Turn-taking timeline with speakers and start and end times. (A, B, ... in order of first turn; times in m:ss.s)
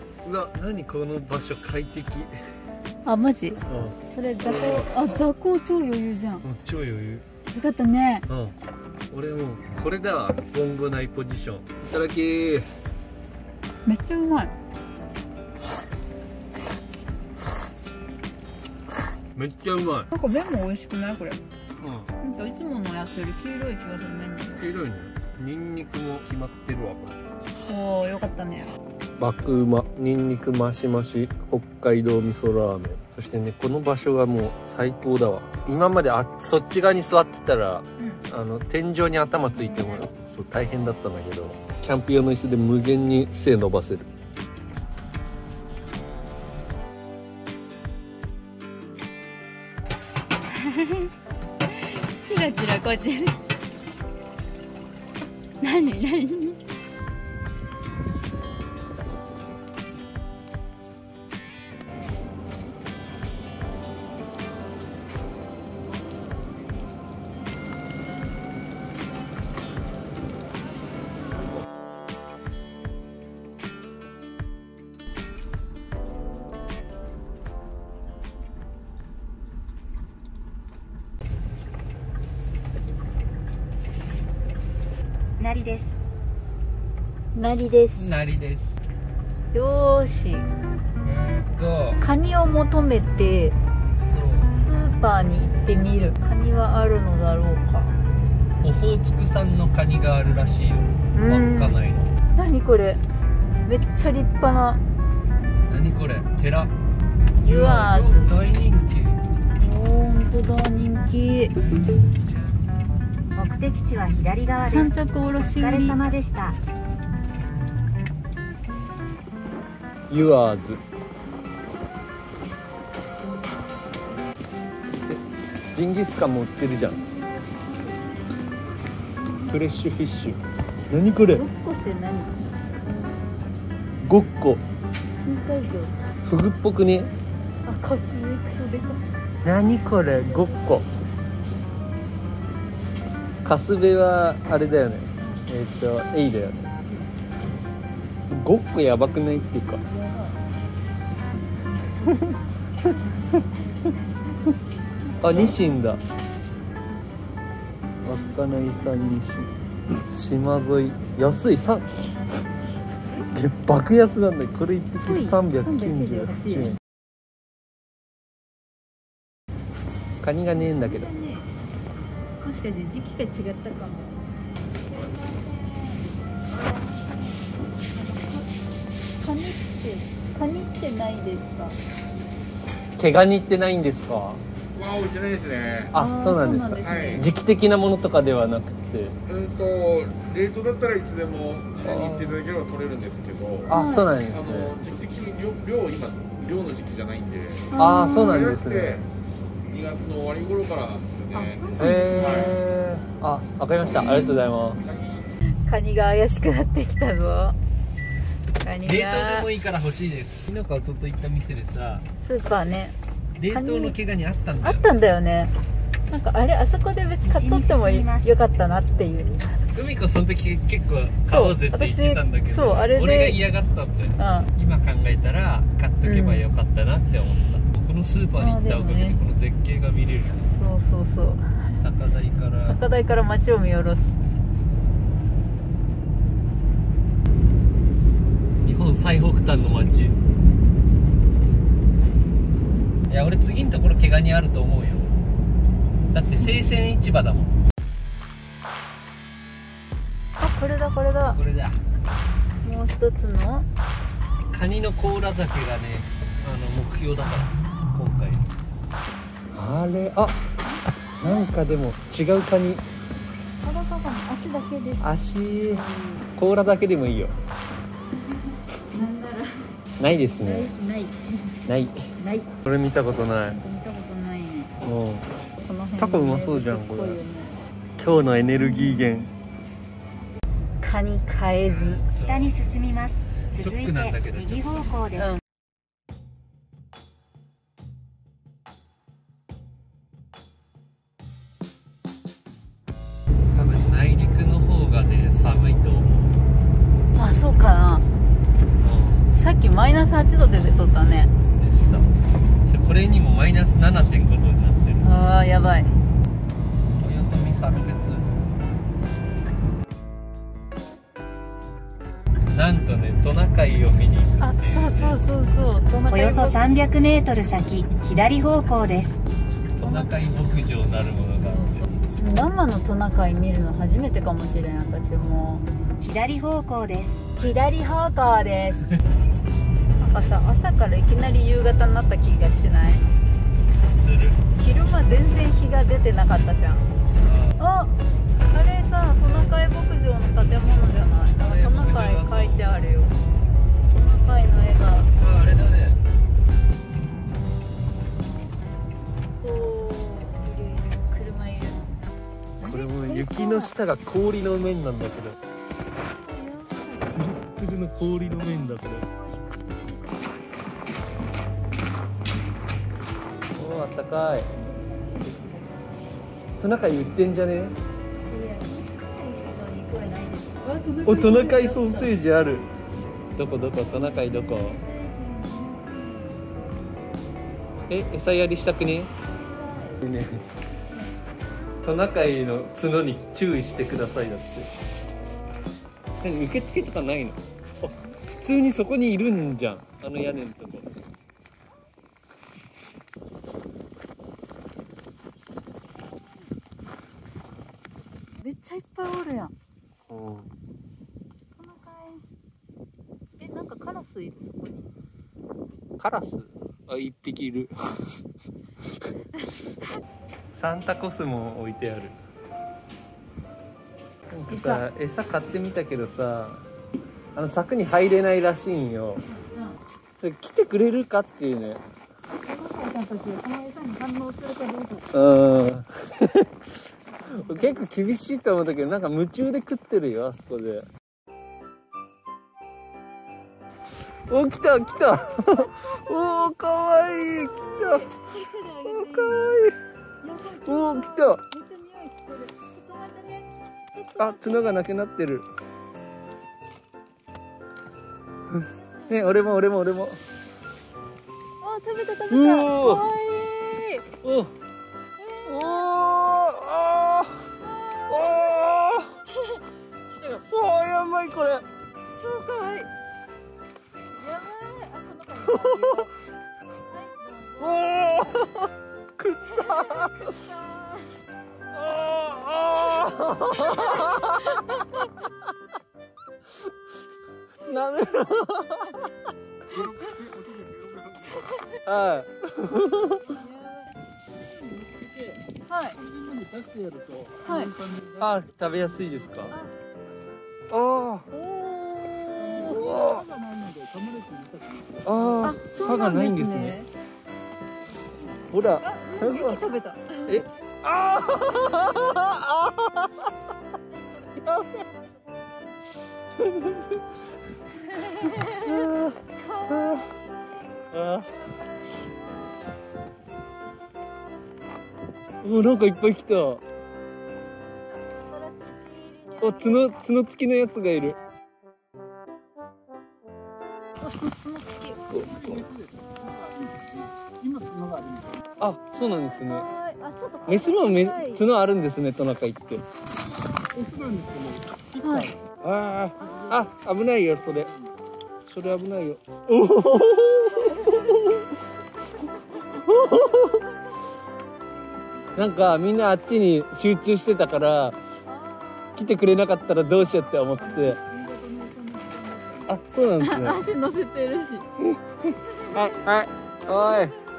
0:00.2-0:02.3 A
0:03.0-0:06.5 B
0:03.7-0:04.9 A
0:06.4-0:07.2 A
0:07.5-0:08.2 B
0:08.3-0:08.6 A
0:09.1-0:12.7 A
0:13.9-0:14.5 B
0:19.4-0:20.1 A
0:20.1-0:21.4 B
0:21.8-0:22.1 A
0:22.2-0:24.6 B
0:24.6-0:27.2 A
0:27.6-0:28.7 B
0:29.2-0:44.1 A
0:39.7-0:40.0 B
0:50.6-0:51.1 B
0:52.2-0:53.4 B
0:55.6-0:56.6 B
1:25.4-1:26.0 C
1:27.3-1:28.2 B
1:28.0-1:28.8 A
1:29.5-1:30.5 B
1:31.0-1:32.0 A
1:32.0-1:33.6 B
1:34.0-1:34.7 A
1:34.5-1:37.9 B
1:38.6-1:42.1 A
1:41.1-1:41.8 B
1:42.3-1:43.0 B
1:43.6-1:44.8 B
1:45.7-1:46.7 A
1:47.4-1:48.3 B
1:47.4-1:49.2 A
1:49.6-1:51.6 B
1:53.4-1:56.6 C
1:54.6-1:56.0 B
2:00.1-2:00.8 A
2:05.0-2:07.0 A
2:07.4-2:08.0 B
2:09.5-2:11.4 A
2:11.2-2:12.4 B
2:14.0-2:14.6 A
2:15.2-2:16.1 B
2:16.2-2:17.1 A
2:17.6-2:19.1 B
2:19.4-2:20.9 A
2:23.4-2:26.7 A
2:28.3-2:29.8 A
2:29.9-2:30.4 B
2:32.1-2:32.4 A
2:35.1-2:35.5 B
2:35.2-2:36.0 A
2:38.0-2:39.5 A
2:40.0-2:42.0 A
2:43.2-2:46.8 A
2:45.0-2:46.8 B
2:50.2-2:51.1 A
2:50.5-2:51.5 B
2:52.4-2:54.2 B
2:54.9-2:58.5 B
2:59.2-3:01.8 B
3:03.0-3:04.4 A
3:04.7-3:05.9 D
3:05.9-3:07.3 B
3:05.9-3:09.2 A
3:06.8-3:07.3 D
3:09.3-3:19.1 D
3:11.8-3:12.4 A
3:13.7-3:14.8 A
3:13.7-3:14.1 B
3:17.7-3:18.5 B
3:17.8-3:19.0 A
3:19.7-3:22.5 D
3:21.3-3:22.6 B
3:21.8-3:24.8 A
3:24.8-3:25.2 D
3:25.6-3:27.6 B
3:28.6-3:29.5 B
3:28.8-3:32.1 A
3:32.2-3:33.0 B
3:33.4-3:34.9 A
3:33.5-3:34.0 B
3:34.6-3:35.5 B
3:36.1-3:39.5 B
3:37.2-3:38.3 C
3:39.7-3:50.5 A
3:41.2-3:43.4 B
3:44.2-3:44.5 B
3:46.0-3:46.4 B
3:48.4-3:49.2 B
3:50.6-3:51.8 B
3:51.8-3:52.8 A
3:52.6-3:54.2 B
3:58.6-4:00.2 A
4:03.1-4:05.2 A
4:06.1-4:07.6 A
4:10.4-4:11.4 B
4:11.4-4:11.8 A
4:12.6-4:13.7 B
4:14.5-4:18.5 A
4:19.5-4:20.4 A
4:20.6-4:21.5 B
4:21.2-4:22.8 A
4:23.6-4:25.1 B
4:25.0-4:25.8 A
4:25.7-4:26.3 B
4:26.4-4:27.4 A
4:28.9-4:29.7 B
4:30.0-4:30.7 A
4:30.4-4:31.6 B
4:31.7-4:32.1 A
4:32.2-4:32.5 B
4:32.6-4:33.6 A
4:33.5-4:34.8 B
4:34.8-4:35.3 A
4:35.6-4:37.6 B
4:36.0-4:37.2 A
4:38.0-4:39.3 A
4:40.8-4:42.0 B
4:41.7-4:42.5 A
4:42.1-4:45.3 C
4:43.5-4:44.8 A
4:53.5-4:56.1 A
4:57.1-4:58.1 B
4:58.8-4:59.3 A
4:59.3-5:01.3 B
5:01.5-5:02.1 A
5:02.7-5:05.1 A
5:05.0-5:06.0 B
5:07.0-5:08.3 A
5:12.5-5:15.2 A
5:14.4-5:16.7 B
5:16.1-5:19.2 C
5:19.8-5:21.9 A
5:19.8-5:20.1 B
5:21.5-5:25.7 B
5:26.0-5:27.3 C
5:27.4-5:28.9 B
5:30.0-5:33.0 B
5:33.9-5:34.4 A
5:34.6-5:36.9 B
5:37.2-5:37.6 A
5:37.6-5:37.9 B
5:38.5-5:43.2 B
5:41.4-5:42.7 A
5:43.9-5:45.1 B
5:45.2-5:46.0 A
5:49.4-5:53.7 B
5:52.6-5:55.4 A
5:56.0-5:57.4 B
5:57.0-5:59.0 A
5:58.4-6:00.3 B
6:03.5-6:04.5 A
6:04.5-6:05.9 B
6:06.6-6:07.8 A
6:08.2-6:12.1 B
6:11.0-6:12.7 A
6:13.4-6:14.8 A
6:14.6-6:16.4 B
6:17.9-6:19.1 A
6:19.4-6:20.0 B
6:20.0-6:20.5 A
6:21.8-6:24.7 A
6:26.2-6:30.9 A
6:27.8-6:28.2 B
6:38.4-6:39.5 B
6:40.1-6:40.5 A
6:41.6-6:42.2 B
6:43.4-6:44.9 B
6:46.0-6:48.0 A
6:50.5-6:52.2 A
6:54.3-6:56.7 A
6:54.5-6:54.8 B
6:57.4-6:59.2 A
6:59.3-6:59.8 B
7:00.2-7:01.8 A
7:02.4-7:05.1 B
7:05.1-7:06.6 A
7:07.2-7:07.8 B
7:07.3-7:10.9 A
7:14.3-7:18.1 A
7:15.4-7:16.4 B
7:17.8-7:19.6 B
7:18.9-7:19.8 A
7:20.2-7:24.7 B
7:20.6-7:21.4 A
7:24.2-7:25.5 A
7:28.5-7:29.6 B
7:29.1-7:30.2 A
7:31.6-7:34.0 B
7:32.3-7:33.1 A
7:34.2-7:34.5 A
7:35.2-7:35.9 B
7:35.5-7:37.5 A
7:37.6-7:38.7 B
7:38.1-7:39.1 A
7:39.3-7:40.5 B
7:40.5-7:41.6 A
7:42.2-7:42.9 B
7:44.1-7:46.1 B
7:45.5-7:46.1 A
7:46.9-7:48.5 B
7:47.6-7:50.3 A
7:49.4-7:51.2 B
7:51.7-7:54.7 A
7:53.0-7:54.8 B
7:57.6-7:59.0 A
8:00.0-8:01.3 D
8:01.8-8:03.4 A
8:03.3-8:03.9 B
8:05.7-8:06.0 B
8:06.1-8:07.3 D
8:07.4-8:07.8 B
8:08.2-8:09.6 A
8:10.7-8:11.3 A
8:11.3-8:12.9 B
8:12.5-8:13.3 A
8:13.7-8:14.6 D
8:15.0-8:16.8 A
8:15.4-8:16.9 B
8:17.9-8:20.4 B
8:18.5-8:19.6 A
8:20.3-8:23.3 A
8:24.4-8:24.8 A
8:26.4-8:27.2 A
8:27.8-8:30.2 B
8:28.4-8:30.1 A
8:30.9-8:31.3 A
8:31.2-8:32.2 B
8:35.4-8:36.6 A
8:37.9-8:40.0 B
8:39.4-8:41.2 A
8:44.0-8:45.0 B
8:45.1-8:45.6 A
8:48.6-8:49.7 A
8:49.4-8:51.4 B
8:50.5-8:52.9 A
8:53.9-8:54.4 D
8:54.9-8:55.3 B
8:55.0-8:57.8 A
8:58.4-9:01.5 A
9:00.6-9:01.0 B
9:02.3-9:03.6 B
9:02.7-9:03.6 A
9:04.8-9:05.4 B
9:05.4-9:08.0 A
9:08.3-9:09.2 B
9:09.0-9:11.0 A
9:10.5-9:12.7 B
9:12.7-9:13.6 A
9:13.2-9:14.7 B
9:15.3-9:16.1 B
9:15.7-9:17.1 A